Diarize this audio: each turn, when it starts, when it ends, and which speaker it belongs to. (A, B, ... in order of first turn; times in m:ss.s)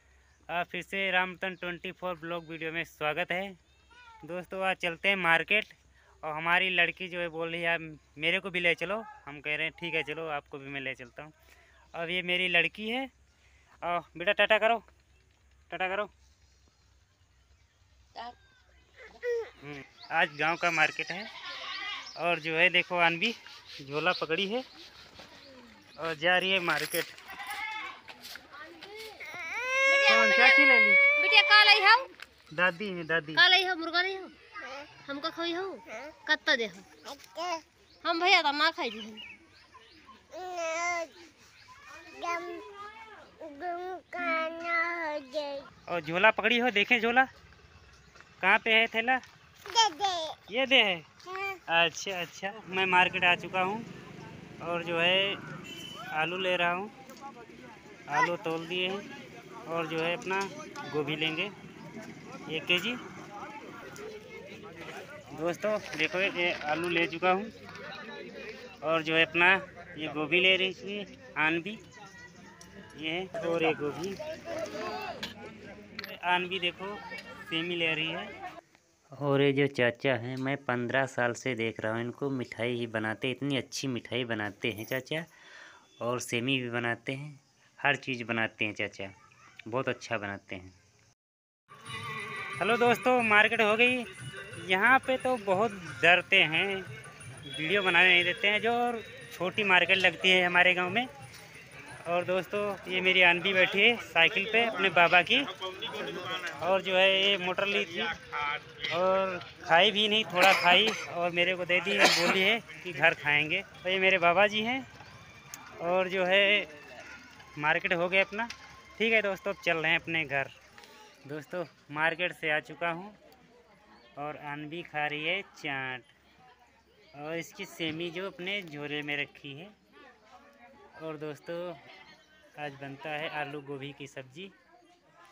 0:00.5-0:03.6 A
0:04.2-0:11.3 A
0:11.9-0:13.1 A
0:13.8-0:14.8 A
0:15.7-0:16.1 A
0:19.6-0:21.3 A
0:22.2-0:24.6 A
0:26.0-0:27.1 A
0:29.2-0:32.1 B
0:30.1-0:31.1 A
0:32.5-0:33.4 A
0:33.4-0:34.3 B
0:35.1-0:39.2 B
0:40.3-0:41.1 B
0:42.1-0:42.7 B
0:43.4-0:45.7 B
0:45.9-0:47.3 A
0:48.4-0:49.2 A
0:49.7-0:50.4 B
0:50.5-0:51.1 A
0:51.7-0:53.9 A
0:54.6-0:55.4 A
0:56.1-0:56.9 A
0:58.1-0:59.1 A
0:59.7-1:01.5 A
1:02.5-1:03.0 A
1:05.3-1:07.5 A
1:08.8-1:11.8 A
1:13.0-1:14.2 A
1:16.1-1:18.3 A
1:19.2-1:25.3 A
1:26.0-1:29.1 A
1:29.7-1:30.8 A
1:32.6-1:36.9 A
1:37.4-1:41.1 A
1:42.1-1:45.5 A
1:46.5-1:48.2 A
1:48.8-1:54.9 A
1:55.8-1:56.7 A
1:57.6-2:00.5 A
2:01.3-2:03.2 A
2:04.2-2:06.1 A
2:07.2-2:09.8 A
2:11.0-2:11.8 A
2:12.6-2:14.5 A